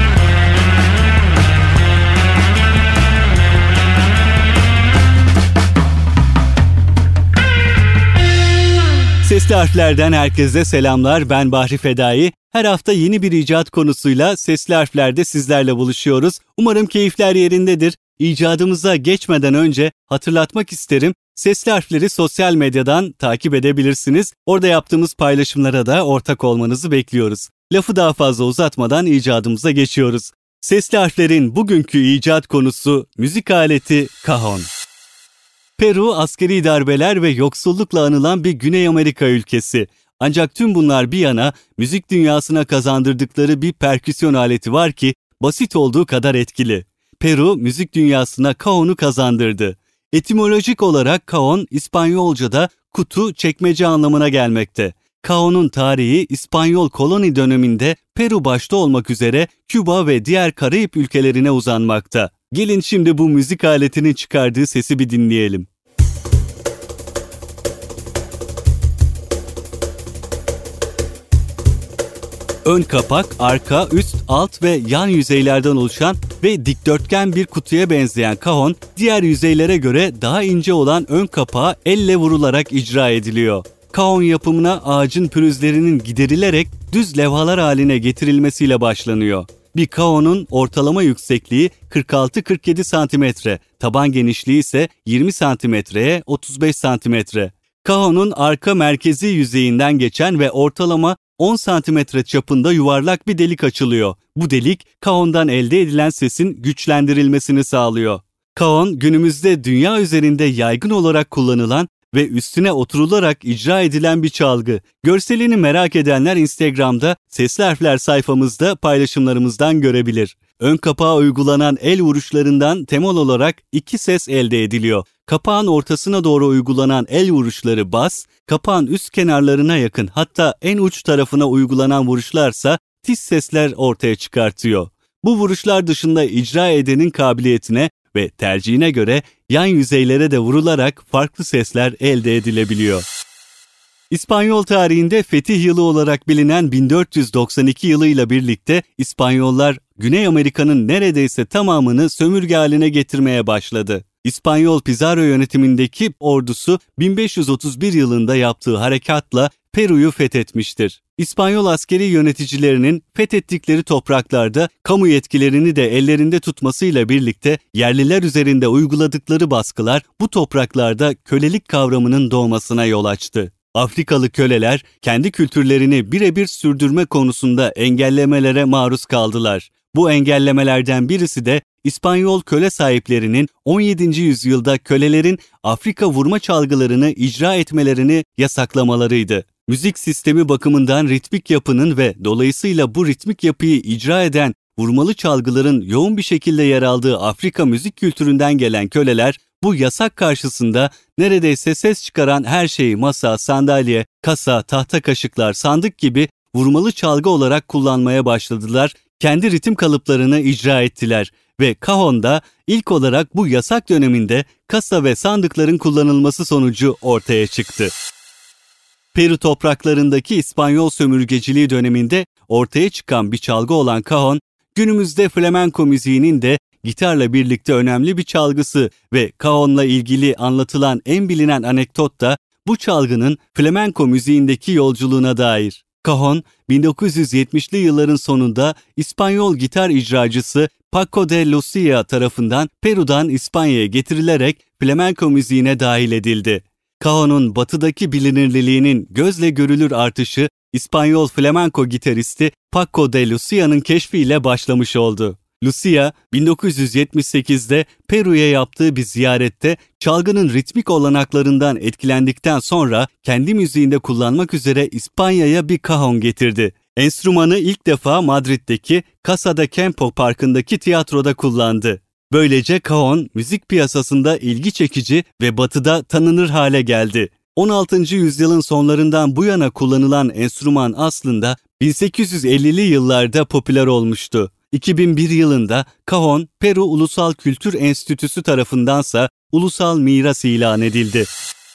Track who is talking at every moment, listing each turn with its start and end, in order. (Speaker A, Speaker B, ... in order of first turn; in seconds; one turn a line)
Speaker A: 9.2-34.7
Speaker A: 35.8-65.7
Speaker A: 72.7-143.0
Speaker A: 144.1-217.9
Speaker A: 219.1-291.3